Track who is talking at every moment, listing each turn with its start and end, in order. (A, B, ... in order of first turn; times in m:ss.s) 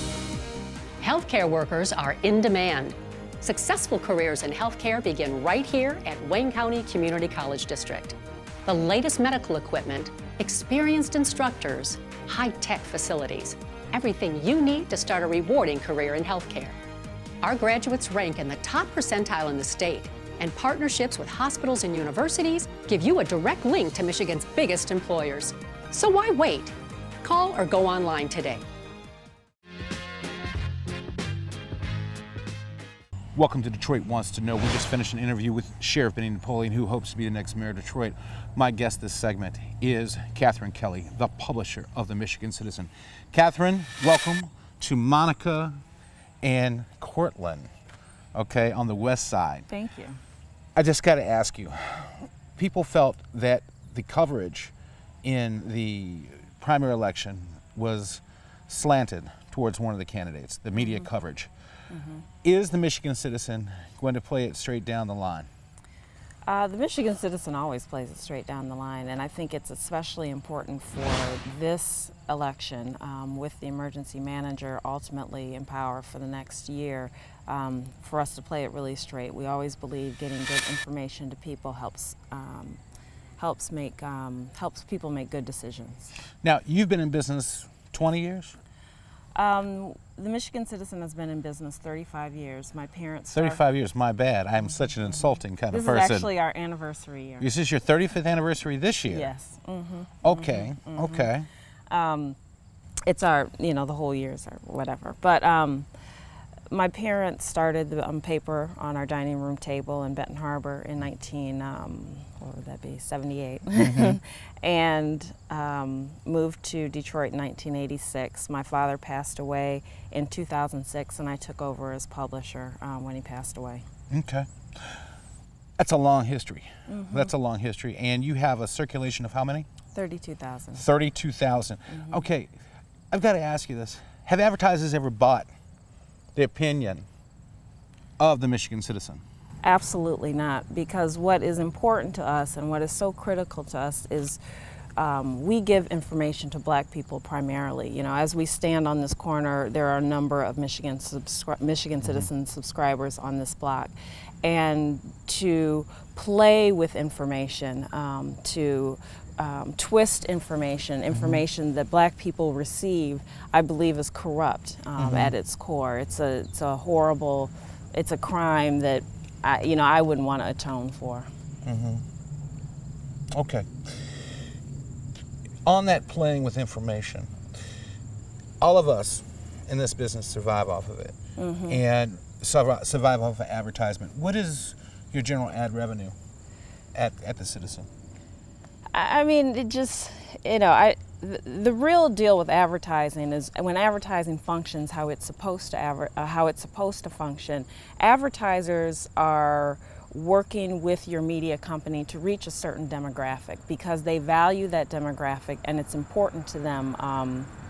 0:01.0-0:16.8 A
0:17.4-0:28.6 A
0:33.3-0:45.8 B
0:46.4-0:47.7 B
0:48.3-0:49.6 B
0:49.7-0:50.2 C
0:50.8-0:54.7 B
0:55.2-1:01.5 B
1:00.8-1:01.0 C
1:01.9-1:02.2 C
1:02.4-1:05.5 B
1:06.4-1:22.8 C
1:23.4-1:26.1 C
1:26.4-1:28.6 B
1:29.3-1:33.6 C
1:33.3-1:36.3 B
1:34.7-1:37.5 C
1:37.4-1:39.3 B
1:39.1-1:41.3 C
1:40.2-1:41.5 B
1:41.9-1:42.4 C
1:43.1-1:45.9 C
1:46.7-2:03.8 C
1:53.7-1:54.2 B
2:04.1-2:05.0 B
2:05.8-2:09.7 B
2:06.9-2:07.3 C
2:09.9-2:10.8 C
2:10.7-2:12.5 B
2:11.9-2:12.2 C
2:13.1-2:15.5 B
2:16.3-2:17.0 B
2:18.2-2:19.2 B
2:19.6-2:24.4 C
2:25.0-2:51.3 C
2:41.1-2:41.4 B
2:45.0-2:45.3 B
2:51.6-2:52.0 B
2:53.3-2:54.2 B
2:55.6-2:57.3 B
2:58.6-3:01.2 B
3:01.4-3:01.8 C
3:01.7-3:06.1 B
3:06.9-3:07.9 B
3:08.9-3:27.5 C